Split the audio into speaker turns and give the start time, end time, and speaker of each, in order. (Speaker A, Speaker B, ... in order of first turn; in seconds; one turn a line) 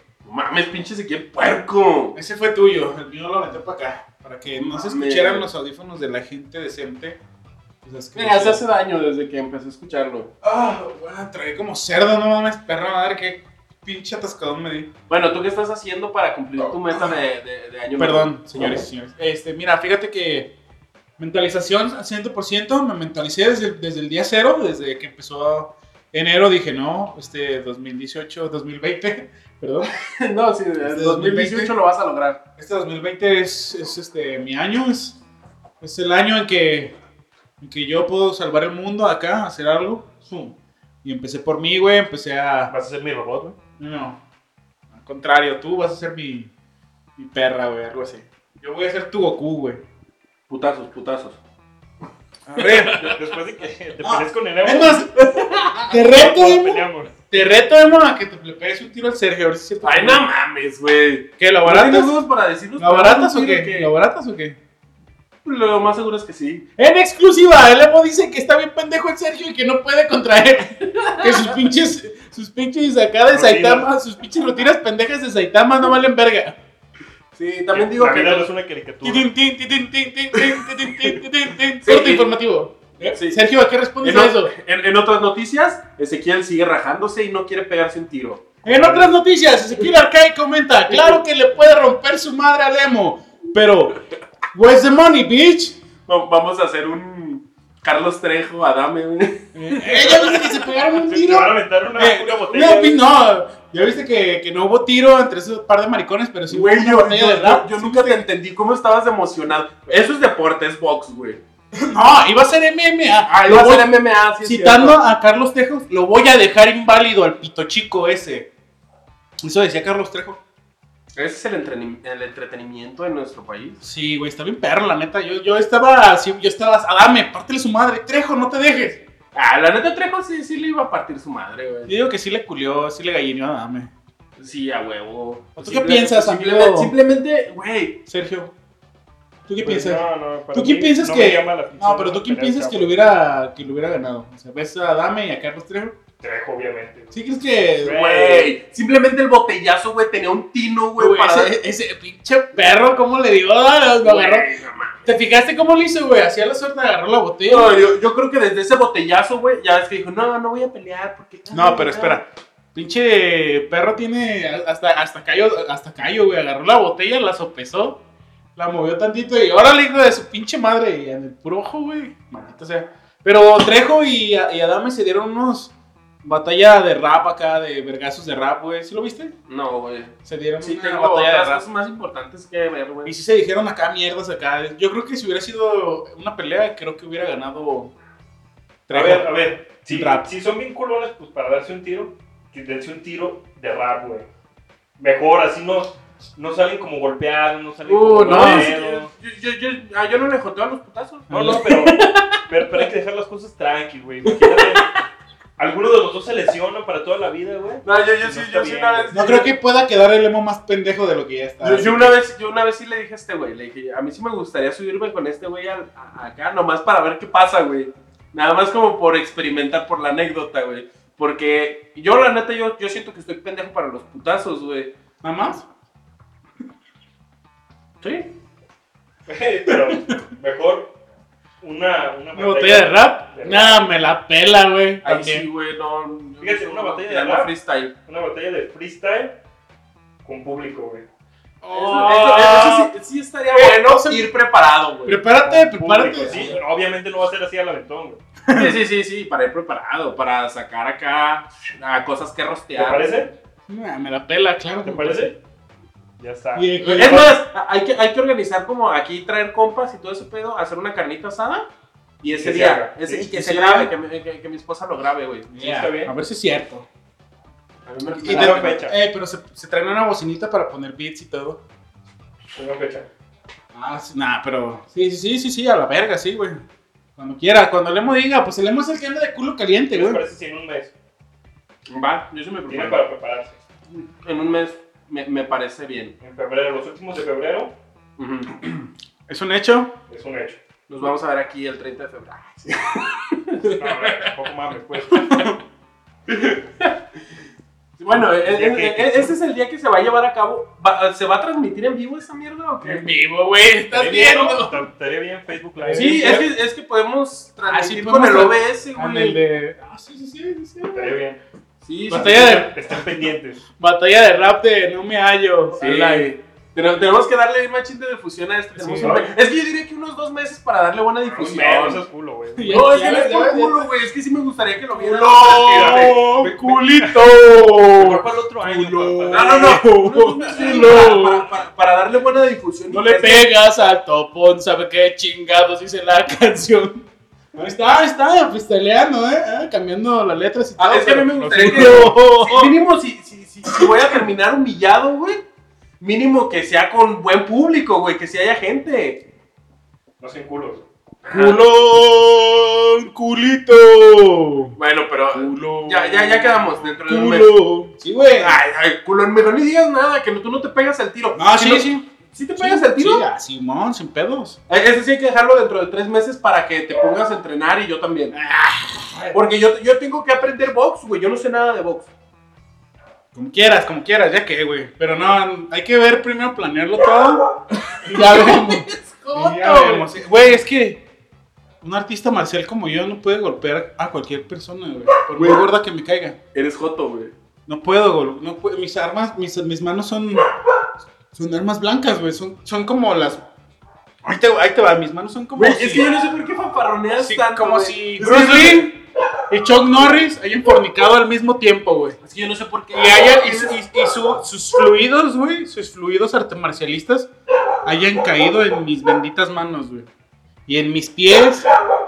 Speaker A: 0.2-2.2
Speaker B: 2.1-7.2
Speaker A: 4.8-5.5
Speaker B: 7.8-8.6
Speaker A: 8.2-10.3
Speaker B: 10.4-14.9
Speaker A: 15.1-18.8
Speaker B: 16.9-17.2
Speaker B: 18.0-20.5
Speaker B: 21.2-29.9
Speaker A: 30.2-32.4
Speaker B: 30.8-31.7
Speaker B: 32.6-35.2
Speaker B: 35.8-37.0
Speaker B: 37.6-40.5
Speaker B: 41.0-42.7
Speaker C: 42.7-43.6
Speaker B: 43.8-44.2
Speaker B: 44.9-46.5
Speaker B: 47.2-49.8
Speaker A: 50.5-51.4
Speaker B: 52.5-53.0
Speaker A: 52.6-53.2
Speaker C: 53.0-55.1
Speaker B: 54.0-60.2
Speaker A: 55.3-55.9
Speaker C: 56.0-57.2
Speaker A: 59.8-63.9
Speaker B: 61.4-62.2
Speaker B: 62.8-64.6
Speaker A: 65.5-66.7
Speaker B: 66.8-76.6
Speaker A: 71.1-71.4
Speaker C: 73.3-73.9
Speaker A: 77.4-78.5
Speaker C: 77.7-79.3
Speaker B: 79.0-84.5
Speaker A: 80.3-81.2
Speaker A: 81.8-82.3
Speaker A: 83.1-83.4
Speaker A: 84.0-88.6
Speaker B: 88.7-94.0
Speaker C: 88.7-89.1
Speaker A: 90.9-91.2
Speaker B: 94.5-95.8
Speaker A: 96.1-100.2
Speaker B: 99.5-108.2
Speaker C: 100.0-100.3
Speaker C: 100.9-103.0
Speaker A: 106.5-111.4
Speaker B: 111.8-113.9
Speaker A: 113.3-115.0
Speaker B: 114.4-118.5
Speaker B: 119.4-120.4
Speaker A: 121.2-123.8
Speaker B: 123.8-129.0
Speaker A: 129.3-132.0
Speaker B: 131.9-133.9
Speaker A: 134.4-138.0
Speaker B: 135.6-136.9
Speaker B: 138.1-138.5
Speaker B: 139.5-146.0
Speaker C: 139.6-142.9
Speaker C: 146.2-147.2
Speaker B: 147.1-148.5
Speaker C: 147.8-148.5
Speaker A: 147.8-151.6
Speaker B: 151.0-154.5
Speaker A: 154.0-155.2
Speaker B: 155.1-157.8
Speaker A: 157.5-162.2
Speaker B: 161.5-168.0
Speaker B: 168.6-179.3
Speaker A: 179.5-183.2
Speaker B: 180.3-181.6
Speaker B: 183.1-187.9
Speaker B: 188.9-190.3
Speaker C: 188.9-194.3
Speaker C: 195.0-199.1
Speaker A: 197.9-202.3
Speaker B: 198.2-198.7
Speaker B: 201.3-201.6
Speaker C: 201.3-204.9
Speaker A: 204.3-204.9
Speaker C: 205.6-209.1
Speaker A: 207.8-209.6
Speaker B: 209.1-212.2
Speaker A: 211.6-224.9
Speaker B: 225.2-225.7
Speaker A: 228.0-228.3
Speaker C: 229.3-230.9
Speaker C: 231.6-233.8
Speaker B: 232.3-235.5
Speaker A: 235.0-237.9
Speaker C: 236.4-237.5
Speaker C: 238.1-239.4
Speaker C: 240.2-241.1
Speaker B: 241.6-242.9
Speaker A: 241.7-245.2
Speaker B: 243.5-244.3
Speaker B: 245.1-246.6
Speaker C: 245.4-248.2
Speaker B: 248.4-248.8
Speaker A: 248.6-253.1
Speaker C: 252.8-253.3
Speaker B: 253.7-255.3
Speaker C: 254.8-255.4
Speaker C: 256.2-257.0
Speaker B: 256.6-257.4
Speaker A: 256.8-261.7
Speaker A: 262.2-265.5
Speaker C: 262.3-263.3
Speaker B: 263.3-263.9
Speaker B: 265.5-266.9
Speaker C: 265.6-266.1
Speaker A: 267.9-268.8
Speaker B: 268.2-271.6
Speaker C: 268.3-269.0
Speaker C: 272.5-273.1
Speaker B: 273.7-276.6
Speaker B: 277.2-280.2
Speaker C: 279.9-280.9
Speaker A: 281.9-283.1
Speaker C: 282.7-283.6
Speaker A: 283.9-286.2
Speaker C: 286.2-287.7
Speaker A: 288.2-288.6
Speaker B: 288.6-289.9
Speaker C: 290.1-290.6
Speaker A: 290.9-294.3
Speaker C: 293.6-295.4
Speaker B: 295.3-295.6
Speaker A: 296.3-297.0
Speaker A: 298.0-303.1
Speaker C: 298.1-299.3
Speaker B: 302.8-304.8
Speaker C: 303.9-306.4
Speaker B: 305.8-306.5
Speaker A: 305.9-309.4
Speaker B: 307.7-311.0
Speaker C: 310.9-311.4
Speaker A: 311.8-312.7
Speaker B: 312.1-312.7
Speaker C: 312.2-313.6
Speaker B: 313.8-316.3
Speaker A: 315.8-322.0
Speaker B: 318.8-319.2
Speaker C: 319.0-319.3
Speaker C: 321.3-322.8
Speaker B: 322.6-323.9
Speaker A: 322.7-326.3
Speaker B: 324.9-331.4
Speaker C: 325.5-327.2
Speaker C: 328.0-329.9
Speaker A: 329.3-333.5
Speaker C: 330.4-330.8
Speaker B: 332.9-337.0
Speaker B: 337.6-342.8
Speaker A: 340.8-345.4
Speaker C: 341.4-342.2
Speaker B: 343.7-344.0
Speaker A: 346.0-349.2
Speaker C: 350.2-350.9
Speaker A: 351.2-351.7
Speaker B: 351.3-354.8
Speaker A: 354.8-357.6
Speaker B: 355.3-358.6
Speaker A: 358.4-363.3
Speaker B: 361.4-362.1
Speaker B: 362.6-364.6
Speaker A: 364.7-368.4
Speaker B: 368.3-369.4
Speaker A: 369.3-372.1
Speaker B: 373.3-377.5
Speaker A: 377.9-380.1
Speaker B: 378.0-381.0
Speaker B: 381.8-386.4
Speaker A: 385.4-385.6
Speaker A: 386.5-387.3
Speaker B: 387.7-390.4
Speaker B: 391.3-393.4
Speaker B: 394.2-396.1
Speaker A: 395.6-398.9
Speaker B: 397.2-399.0
Speaker B: 399.5-402.2
Speaker A: 402.2-403.8
Speaker B: 402.9-407.3
Speaker B: 407.9-410.1
Speaker B: 410.7-411.7